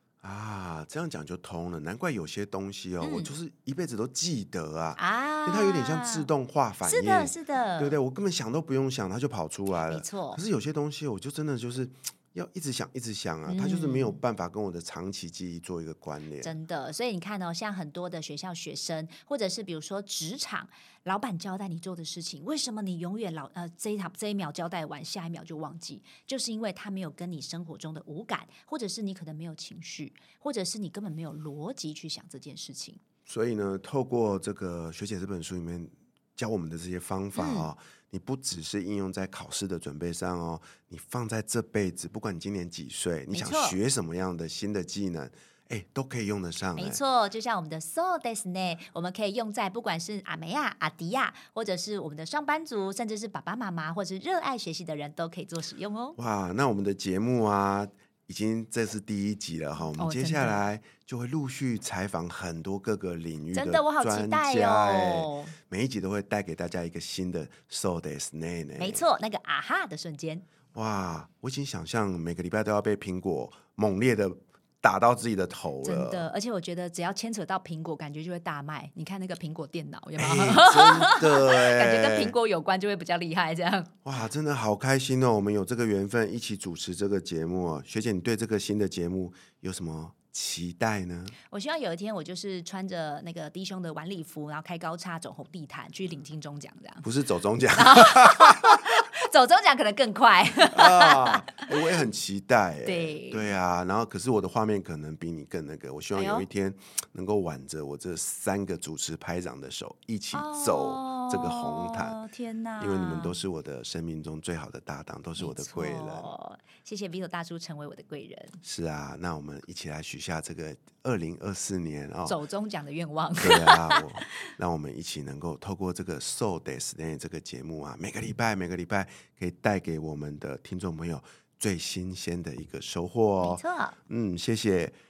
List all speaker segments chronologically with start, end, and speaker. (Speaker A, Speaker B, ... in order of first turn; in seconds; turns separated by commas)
Speaker A: 0.2-16.5, Speaker B: 3.0-3.3, Speaker B: 5.0-6.3, Speaker B: 6.8-8.0, Speaker B: 9.9-10.4, Speaker B: 13.5-14.2, Speaker B: 16.4-33.0, Speaker A: 33.3-47.0, Speaker B: 37.4-37.7, Speaker B: 43.3-43.8, Speaker B: 46.8-56.2, Speaker A: 56.2-69.0, Speaker B: 60.0-60.6, Speaker B: 63.5-65.5, Speaker B: 68.8-70.5, Speaker A: 70.7-76.3, Speaker B: 75.8-84.0, Speaker A: 80.2-82.4, Speaker A: 84.0-91.3, Speaker B: 91.5-97.1, Speaker A: 97.0-98.8, Speaker B: 97.8-101.8, Speaker A: 100.6-112.2, Speaker B: 102.8-103.5, Speaker B: 106.2-106.5, Speaker B: 110.3-113.4, Speaker A: 112.8-116.3, Speaker B: 115.4-118.6, Speaker A: 118.6-122.4, Speaker B: 122.3-124.1, Speaker A: 123.4-135.0, Speaker B: 133.4-134.0